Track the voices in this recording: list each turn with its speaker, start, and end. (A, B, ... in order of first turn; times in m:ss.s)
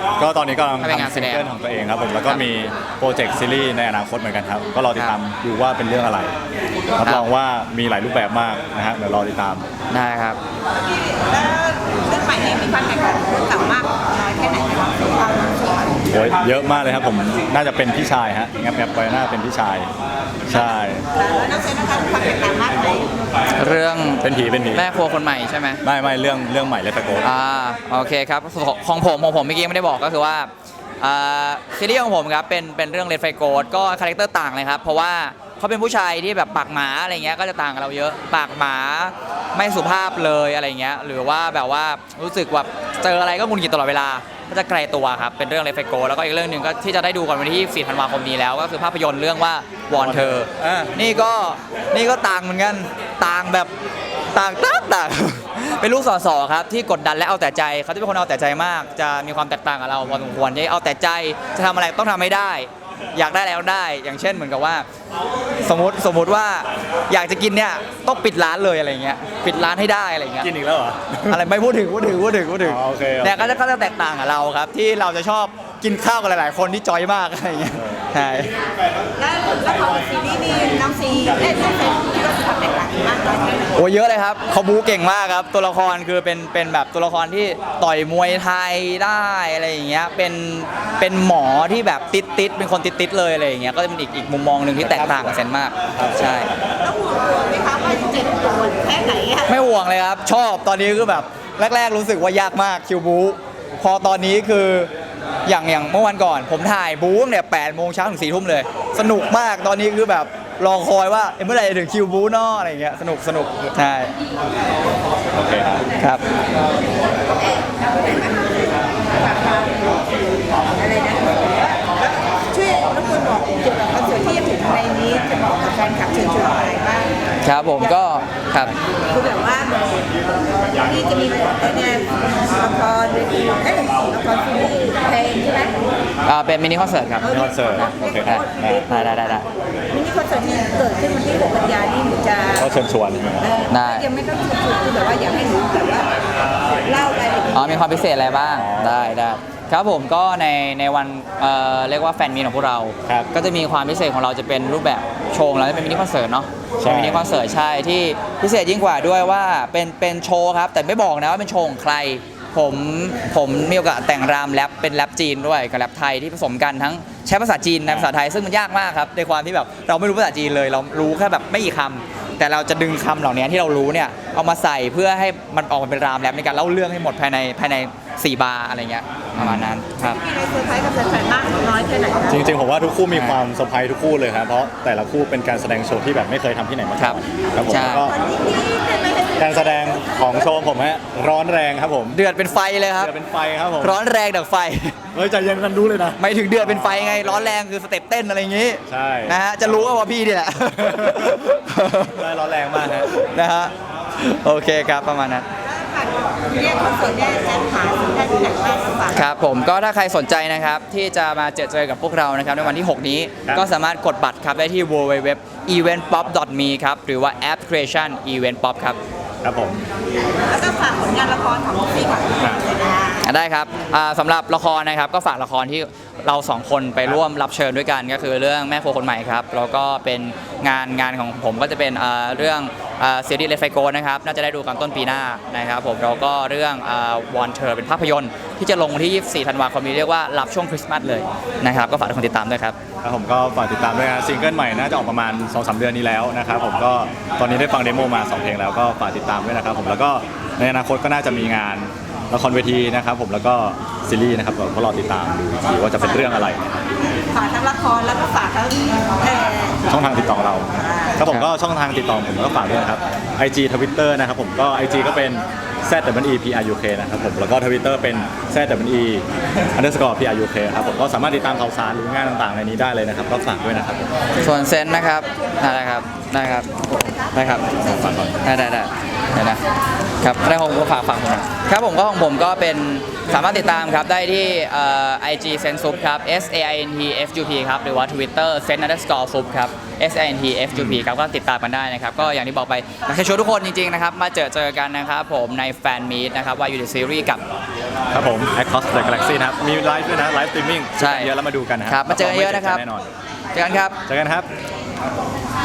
0:00.2-0:06.3 A
0:00.8-0:01.5 B
0:05.0-0:05.2 B
0:07.0-0:09.7 A
0:07.0-0:07.3 B
0:09.9-0:10.4 B
0:10.9-0:16.0 C
0:16.1-0:19.9 A
0:20.5-0:21.0 A
0:21.2-0:23.1 C
0:23.6-0:25.8 B
0:24.2-0:25.0 A
0:25.8-0:27.3 A
0:27.2-0:53.7 B
0:50.0-0:51.0 A
0:54.3-1:04.8 B
1:00.1-1:00.3 A
1:05.6-1:10.5 B
1:10.4-1:11.4 A
1:11.3-1:18.5 B
1:12.6-1:13.6 A
1:17.7-1:18.1 A
1:19.2-1:23.8 C
1:23.7-1:36.5 B
1:34.8-1:35.4 A
1:36.0-1:36.5 A
1:36.8-1:39.6 C
1:39.5-1:44.9 B
1:45.4-1:54.1 B
1:55.3-1:55.9 A
1:56.0-1:56.2 B
1:57.5-2:07.1 C
2:07.4-2:08.8 B
2:09.1-2:15.9 C
2:16.2-2:19.5 B
2:17.2-2:22.7 C
2:17.2-2:19.0 A
2:22.6-2:23.5 A
2:23.4-2:26.2 C
2:23.7-2:24.1 B
2:26.8-2:28.0 C
2:27.5-3:00.2 B
2:28.5-2:29.2 A
2:36.8-2:37.3 A
2:47.9-2:48.1 A
2:59.4-2:59.8 A
3:00.0-3:02.5 C
3:02.3-3:08.1 A
3:03.1-3:03.4 B
3:07.0-3:08.1 B
3:08.0-3:10.0 C
3:09.4-3:12.2 A
3:12.1-3:13.1 B
3:13.0-3:14.0 A
3:13.8-3:15.0 B
3:15.1-3:17.6 A
3:16.2-3:22.3 B
3:18.9-3:19.9 A
3:20.8-3:23.1 A
3:22.8-3:25.5 B
3:25.6-3:29.3 C
3:29.1-3:39.0 B
3:39.4-3:39.8 A
3:40.5-3:43.3 C
3:43.2-4:02.8 B
4:03.0-4:16.8 A
4:17.0-4:19.9 C
4:19.9-4:29.2 A
4:20.8-4:21.2 C
4:21.2-4:21.5 B
4:29.8-4:34.1 A
4:34.4-4:39.6 B
4:37.8-4:38.4 A
4:40.2-4:57.4 B
4:50.7-4:51.0 A
4:58.1-5:03.0 A
5:01.0-5:01.3 B
5:01.9-5:02.8 B
5:03.5-5:04.0 B
5:04.1-5:04.5 A